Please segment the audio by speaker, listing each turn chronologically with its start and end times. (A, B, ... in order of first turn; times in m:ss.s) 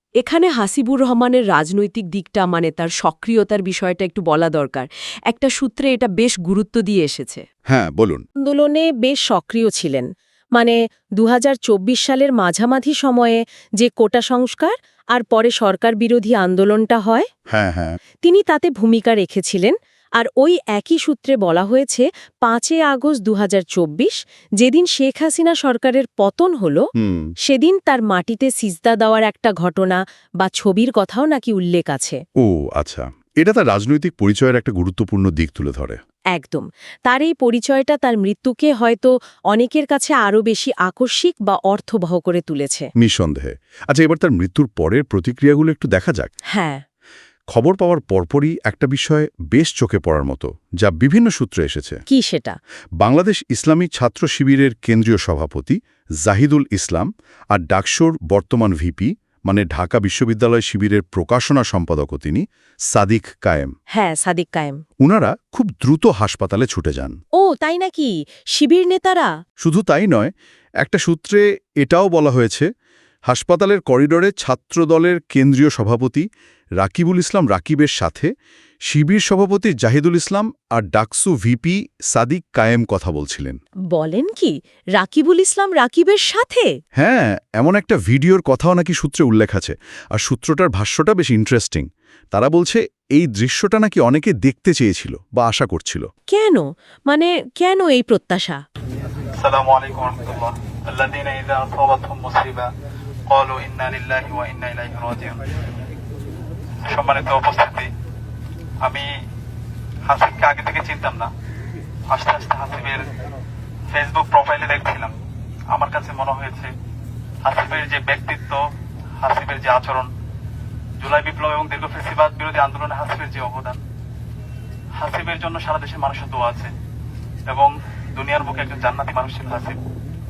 0:00.2-0:07.4 A
0:07.7-0:08.2 B
0:08.4-0:17.3 A
0:17.5-0:18.0 B
0:18.2-0:26.9 A
0:27.0-0:27.3 B
0:27.5-0:32.2 A
0:32.4-0:36.0 B
0:36.3-0:42.9 A
0:43.0-0:46.3 B
0:46.5-0:46.8 A
0:47.5-0:52.0 B
0:52.1-0:52.6 A
0:53.0-1:03.7 B
1:03.9-1:04.8 A
1:05.0-1:07.2 B
1:07.4-1:09.3 A
1:09.6-1:12.7 B
1:13.3-1:16.3 B
1:16.8-1:18.3 B
1:18.9-1:23.6 B
1:23.9-1:26.7 A
1:27.0-1:36.1 B
1:36.3-1:38.6 A
1:39.4-1:42.7 C
1:43.3-1:45.6 C
1:46.9-1:47.9 C
1:50.1-1:51.3 C
1:52.1-1:53.1 C
1:53.9-1:55.1 C
1:55.7-1:56.7 C
1:57.4-1:58.6 C
1:59.2-2:00.1 C
2:01.0-2:03.8 C
2:05.0-2:06.7 C
2:07.5-2:09.8 C